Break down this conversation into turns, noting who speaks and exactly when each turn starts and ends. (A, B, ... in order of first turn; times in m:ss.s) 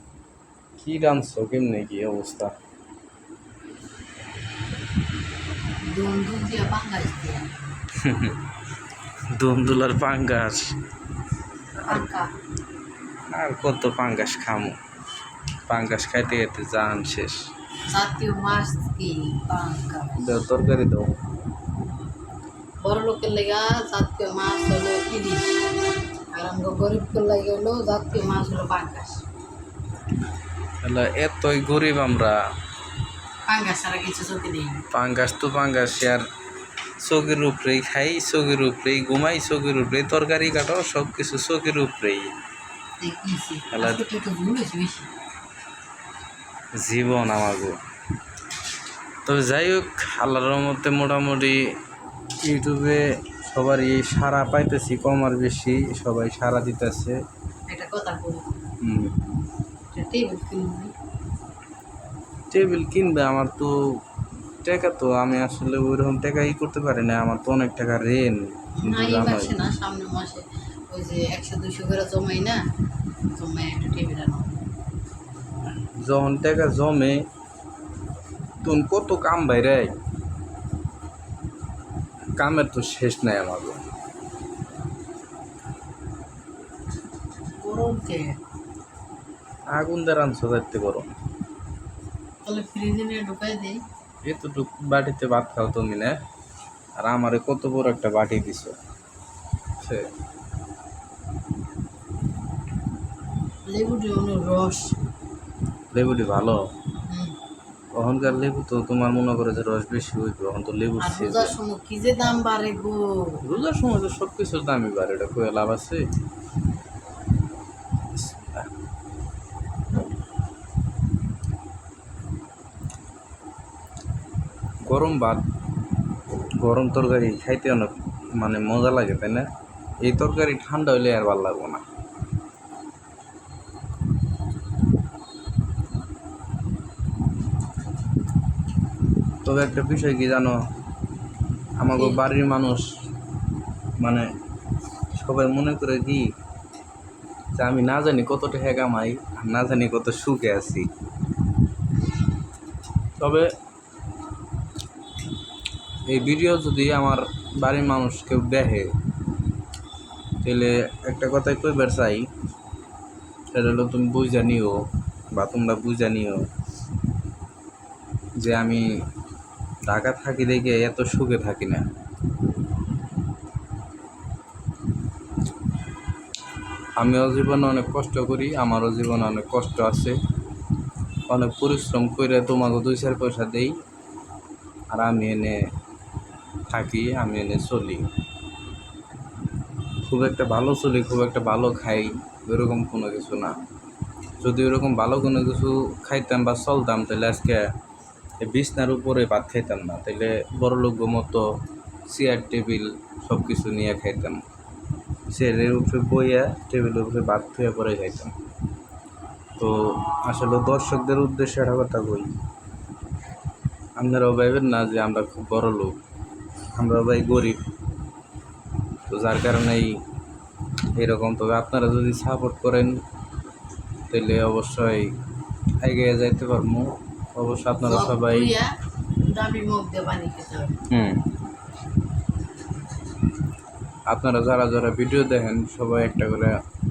0:00.8-0:02.5 A
0:05.8-0:07.6 B
0:07.9-0:08.4 A
0:09.3-0:10.8 A
0:11.9-0:12.3 B
0:13.3-0:14.8 A
0:15.7-0:17.5 A
0:17.9-0:20.3 B
0:20.2-0:21.1 A
0:22.8-0:25.6 B
0:26.3-0:29.2 B
0:30.8-0:32.4 A
0:33.5-0:34.8 B
0:34.9-0:36.2 A
0:37.0-0:42.3 A
0:43.0-0:45.1 B
0:43.7-0:44.0 A
0:46.8-0:47.8 A
0:49.2-0:51.6 A
0:52.4-0:57.2 A
0:57.7-0:58.4 B
0:58.8-0:59.2 A
0:59.9-1:00.9 B
1:02.5-1:03.7 A
1:04.6-1:09.6 A
1:08.8-1:12.6 B
1:13.3-1:14.6 B
1:16.0-1:17.2 A
1:18.6-1:19.9 A
1:22.4-1:23.8 A
1:27.6-1:28.3 B
1:29.7-1:31.1 A
1:32.4-1:33.8 B
1:34.2-1:36.1 A
1:37.0-1:38.7 A
1:39.8-1:40.1 A
1:43.7-1:44.9 B
1:45.9-1:46.6 A
1:47.1-1:47.4 B
1:47.9-1:51.5 A
1:51.0-1:53.4 B
1:53.4-1:56.0 A
1:58.1-1:58.7 A
2:04.9-2:05.4 A
2:06.6-2:09.4 A
2:10.0-2:11.8 A
2:19.4-2:20.6 A
2:21.8-2:23.0 A
2:21.9-2:22.2 B
2:24.0-2:24.2 A
2:25.2-2:26.3 A
2:27.6-2:30.9 A
2:33.2-2:33.5 A
2:36.1-2:38.9 A
2:40.4-2:42.3 A
2:43.5-2:44.8 A
2:45.3-2:46.4 A
2:48.4-2:48.8 A
2:49.9-2:51.8 A
2:57.0-3:00.2 A
3:01.3-3:03.8 A
3:04.9-3:05.6 A
3:06.7-3:08.1 A
3:10.0-3:13.5 A
3:14.4-3:17.7 A
3:18.4-3:21.4 A
3:22.1-3:24.4 A
3:25.3-3:28.3 A
3:29.6-3:32.3 A
3:34.0-3:36.0 A
3:36.8-3:37.6 A
3:39.1-3:40.0 A
3:41.0-3:43.0 A
3:44.1-3:45.1 A
3:45.8-3:48.5 A
3:47.8-3:48.7 B
3:49.2-3:50.8 B
3:50.9-3:51.3 A
3:54.1-3:56.6 A